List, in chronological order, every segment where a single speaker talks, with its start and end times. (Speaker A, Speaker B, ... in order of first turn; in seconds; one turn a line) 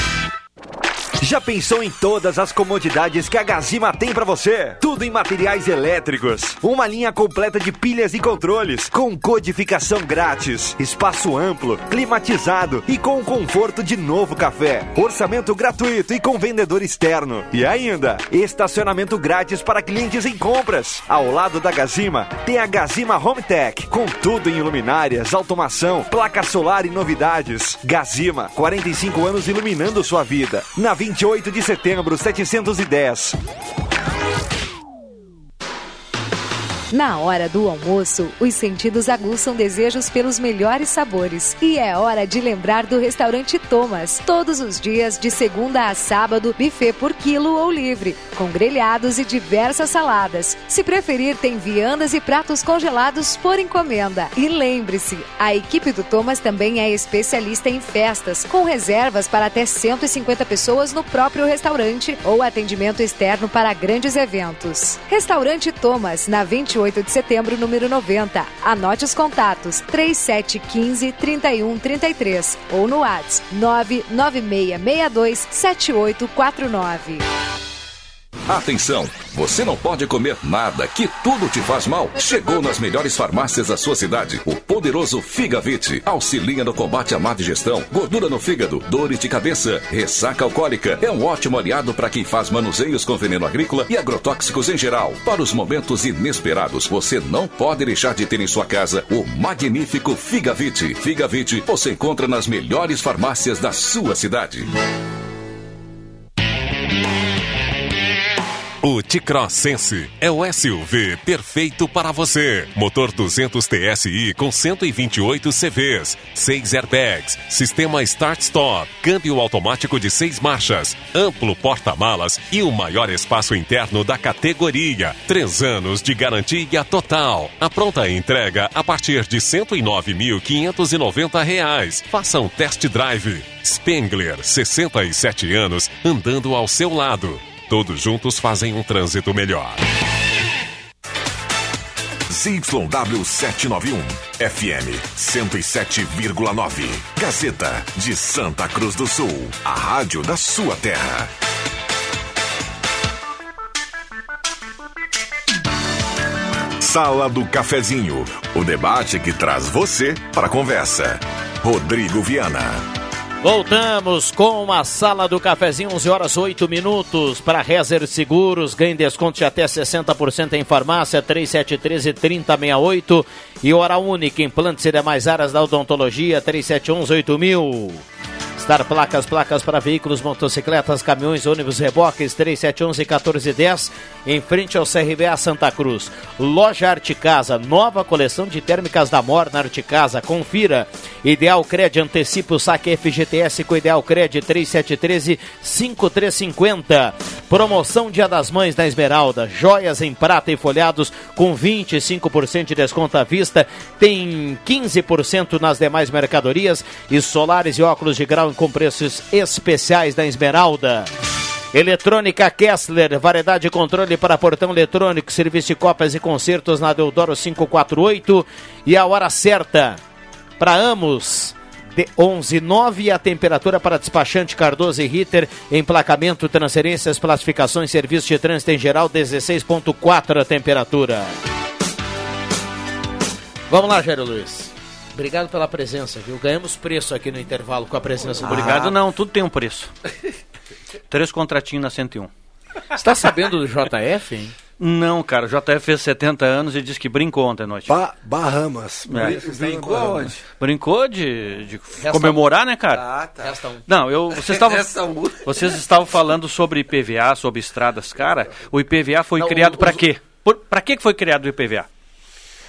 Speaker A: 1.2-33.4
Speaker B: 36.9-77.2
Speaker C: 78.5-104.7
Speaker D: 108.8-139.8
Speaker E: 142.3-151.3
Speaker E: 156.8-162.8
Speaker F: 163.4-178.0
Speaker F: 178.6-211.1
Speaker F: 211.7-220.0
Speaker F: 220.6-231.3
Speaker F: 233.7-238.9
Speaker G: 238.4-239.0
Speaker H: 238.4-239.9
Speaker H: 241.1-242.3
Speaker F: 243.0-244.6
Speaker H: 244.8-247.9
Speaker I: 247.9-250.3
Speaker H: 249.1-249.4
Speaker G: 249.1-250.5
Speaker H: 250.5-253.0
Speaker F: 252.0-252.4
Speaker G: 252.9-253.5
Speaker F: 253.4-253.8
Speaker H: 253.9-254.9
Speaker G: 254.3-255.8
Speaker H: 255.4-261.9
Speaker F: 259.4-260.0